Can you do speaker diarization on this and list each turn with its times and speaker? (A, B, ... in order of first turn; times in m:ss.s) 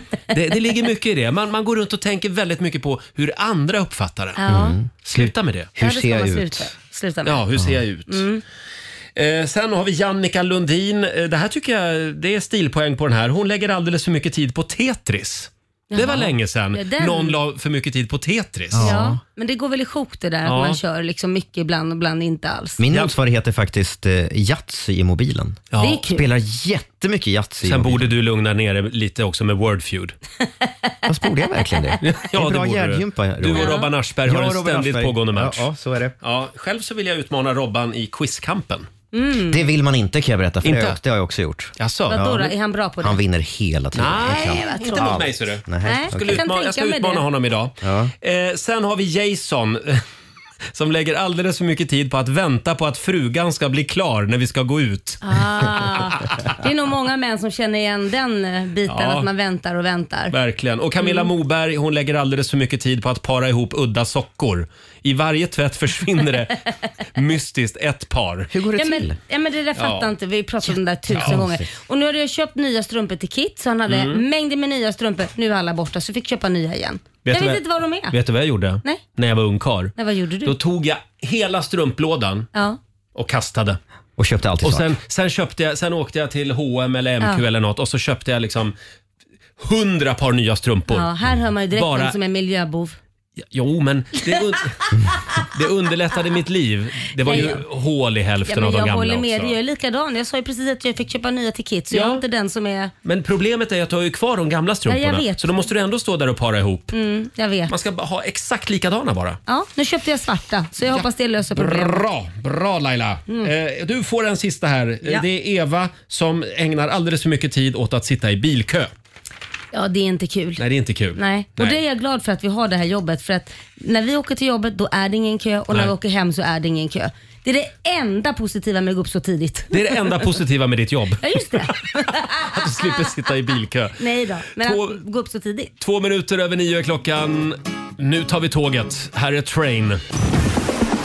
0:00.3-0:04.4 A
0:04.4-0:04.8 B
0:04.5-0:06.7 C
0:05.0-0:05.7 A
0:05.8-0:07.4 B
0:07.2-0:08.2 A
0:07.6-0:07.8 C
0:08.1-0:08.4 B
0:09.2-0:19.0 A
0:15.9-0:17.4 B
0:18.7-0:19.2 C
0:18.8-0:22.8 B
0:20.4-0:20.8 A
0:22.8-0:28.1 C
0:25.7-0:26.0 A
0:25.8-0:26.2 B
0:27.6-0:30.2 A
0:31.0-0:36.2 C
0:32.0-0:35.6 A
0:33.5-0:33.9 B
0:36.2-0:38.9 A
0:39.1-0:39.6 B
0:39.4-0:46.4 C
0:40.6-0:41.0 A
0:41.8-0:42.3 A
0:42.1-0:43.2 B
0:43.9-0:50.0 A
0:44.3-0:45.1 B
0:45.8-0:47.2 B
0:47.8-0:48.1 C
0:50.7-0:56.5 A
0:55.2-1:00.3 B
0:58.9-0:59.3 A
1:00.3-1:06.6 A
1:01.0-1:01.3 B
1:07.1-1:08.5 A
1:08.5-1:09.2 C
1:08.8-1:18.1 B
1:09.8-1:10.1 A
1:11.1-1:11.7 C
1:13.9-1:14.2 A
1:17.2-1:22.5 A
1:20.0-1:20.6 B
1:23.1-1:23.8 A
1:24.2-1:24.9 C
1:24.6-1:28.7 A
1:29.6-1:31.1 A
1:30.9-1:33.0 B
1:31.7-1:32.2 A
1:33.5-1:39.6 A
1:37.2-1:37.6 B
1:38.5-1:42.9 B
1:41.9-1:42.2 A
1:43.0-1:46.9 A
1:44.9-1:45.6 B
1:46.9-1:47.7 B
1:47.7-1:49.4 A
1:49.5-1:52.0 B
1:50.9-1:58.9 A
1:59.7-2:00.6 B
2:00.6-2:01.8 A
2:01.1-2:10.2 B
2:09.7-2:14.0 A
2:11.2-2:12.9 B
2:14.0-2:15.7 B
2:14.5-2:15.0 A
2:15.8-2:20.0 A